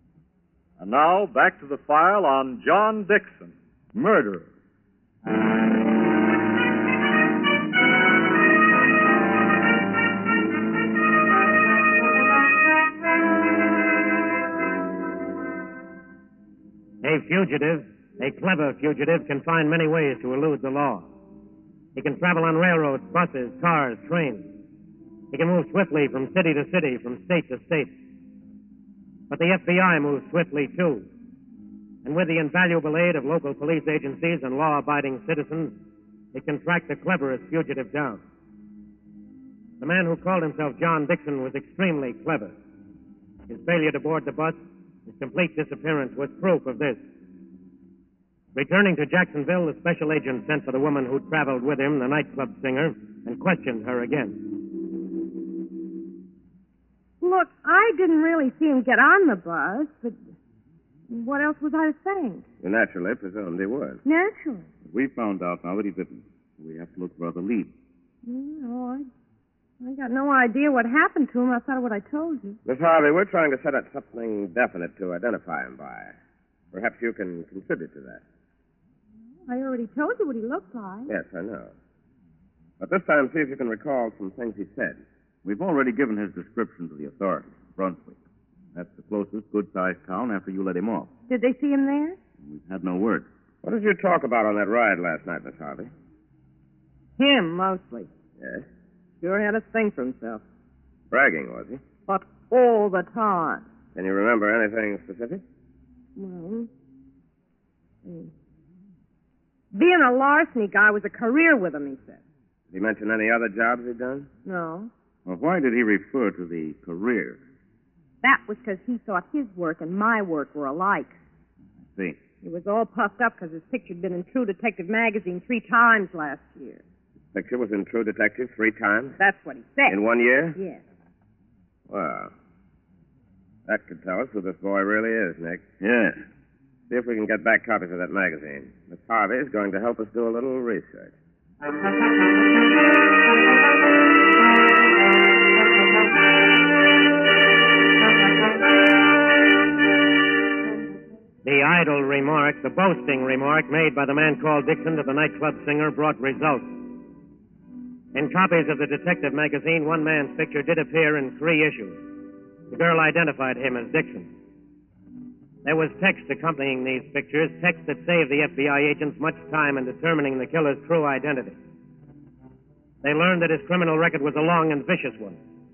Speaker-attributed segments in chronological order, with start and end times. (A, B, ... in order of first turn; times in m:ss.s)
0:00.8-0:04.5 A
0:17.0-0:21.1 B
0:21.9-0:24.5 B
0:25.3-0:27.9 B
0:29.3-0:31.1 B
0:32.0-0:35.8 B
0:36.3-0:38.2 B
0:39.8-0:42.5 B
0:43.5-0:47.0 B
0:48.5-0:54.4 B
0:57.2-1:00.2 C
1:01.1-1:02.4 C
1:02.6-1:04.0 D
1:04.0-1:04.7 C
1:04.8-1:07.7 E
1:08.2-1:09.1 C
1:09.8-1:12.6 C
1:12.6-1:16.1 D
1:16.7-1:18.2 D
1:19.5-1:21.1 C
1:21.1-1:21.7 D
1:22.8-1:25.0 D
1:25.4-1:28.2 E
1:28.7-1:31.1 E
1:31.3-1:32.2 C
1:32.4-1:33.3 E
1:33.6-1:35.9 D
1:37.2-1:38.1 C
1:38.4-1:38.6 D
1:39.2-1:40.4 C
1:41.1-1:41.8 D
1:42.1-1:43.6 C
1:43.9-1:45.4 D
1:46.2-1:46.7 C
1:48.0-1:48.3 C
1:49.7-1:52.2 C
1:52.7-1:54.3 D
1:54.4-1:54.9 C
1:55.2-1:57.4 E
1:58.2-2:01.2 C
2:02.4-2:06.8 C
2:07.3-2:09.2 D
2:09.2-2:10.0 C
2:09.9-2:10.6 D
2:11.9-2:12.3 D
2:13.6-2:15.6 D
2:15.8-2:16.2 E
2:16.9-2:21.1 D
2:31.4-2:36.7 B
2:38.1-2:42.0 B
2:42.7-2:44.3 B
2:45.6-2:51.6 B
2:53.0-2:55.4 B